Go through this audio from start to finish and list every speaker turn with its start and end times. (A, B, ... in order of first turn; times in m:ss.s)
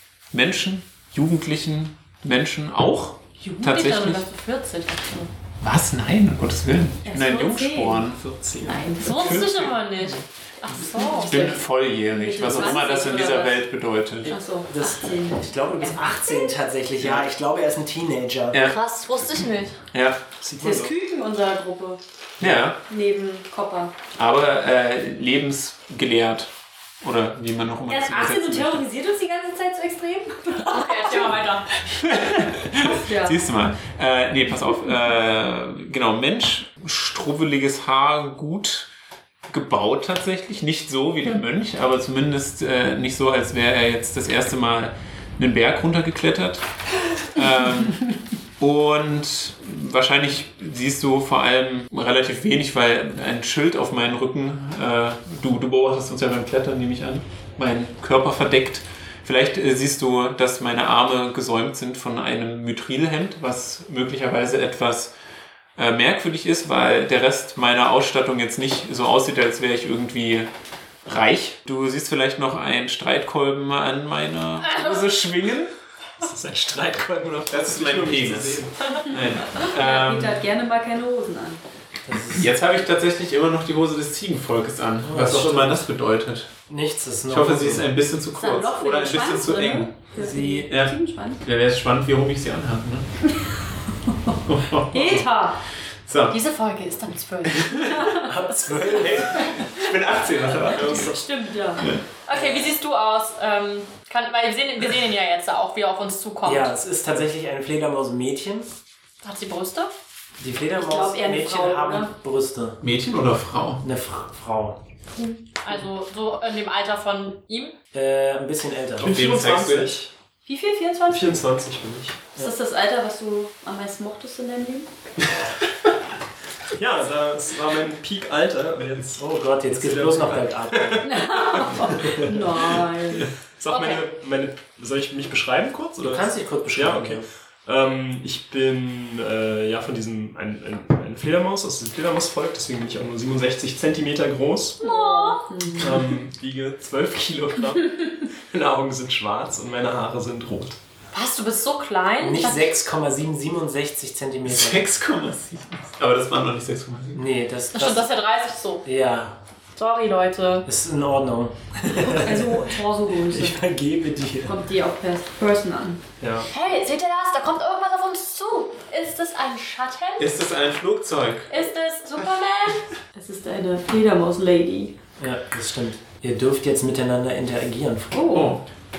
0:00.3-0:04.2 A
0:03.4-0:05.3 B
0:05.6-0:08.2 A
0:07.0-0:08.0 C
0:08.1-0:09.3 D
0:08.6-0:09.4 C
0:09.0-0:11.6 B
0:09.1-0:09.8 A
0:10.8-0:13.6 C
0:11.1-0:14.3 A
0:12.5-0:13.6 B
0:14.2-0:15.4 C
0:14.2-0:18.6 E
0:18.5-0:19.8 B
0:19.9-0:20.2 A
0:20.4-0:20.9 D
0:20.6-0:22.0 C
0:22.4-0:22.8 A
0:22.8-0:23.9 C
0:24.2-0:28.8 A
0:27.9-0:31.3 C
0:30.6-0:31.7 B
0:31.9-0:38.9 A
0:32.9-0:33.4 C
0:39.5-0:46.6 A
0:47.2-1:05.1 A
1:05.8-1:10.5 A
1:11.0-1:15.7 A
1:14.6-1:15.0 B
1:16.2-1:19.0 D
1:17.5-1:20.4 A
1:19.5-1:21.6 C
1:22.0-1:22.5 E
1:22.3-1:26.5 A
1:25.0-1:25.9 E
1:26.7-1:27.9 E
1:27.3-1:30.0 A
1:28.3-1:31.4 C
1:30.1-1:30.7 E
1:30.7-1:33.1 A
1:34.1-1:34.4 C
1:34.4-1:35.3 A
1:34.9-1:35.6 C
1:36.0-1:36.4 A
1:36.3-1:38.1 B
1:37.5-1:38.1 A
1:38.2-1:39.6 E
1:38.7-1:41.1 A
1:40.7-1:41.2 D
1:40.8-1:41.9 C
1:41.8-1:42.0 A
1:42.2-1:46.7 B
1:42.3-1:42.8 E
1:46.4-1:48.7 E
1:49.2-1:49.9 B
1:50.4-1:52.8 E
1:50.8-1:52.1 C
1:52.8-1:53.8 A
1:53.8-1:54.8 E
1:55.2-1:57.7 B
1:57.9-1:59.2 E
1:59.0-2:00.1 D
1:59.0-2:00.0 A
2:00.4-2:01.4 C
2:01.1-2:02.2 D
2:02.4-2:04.9 C
2:06.7-2:24.8 D
2:09.2-2:11.1 E
2:11.0-2:13.3 C
2:13.7-2:14.1 B
2:16.0-2:17.3 E
2:24.8-2:25.5 B
2:24.8-2:26.1 C
2:25.7-2:30.8 D
2:31.1-2:32.7 B
2:32.2-2:34.8 E
2:34.4-2:37.2 A
2:37.1-2:38.1 E
2:37.7-2:38.8 B
2:38.8-2:39.4 E
2:39.8-2:40.7 B
2:40.6-2:44.6 E
2:41.9-2:43.6 C
2:44.4-2:46.0 C
2:46.2-2:46.5 D
2:46.5-2:50.3 B
2:50.2-2:51.5 A
2:51.5-2:52.9 B
2:53.1-2:55.0 C
2:55.2-2:58.4 E
2:58.1-2:58.6 C
2:58.3-2:58.6 A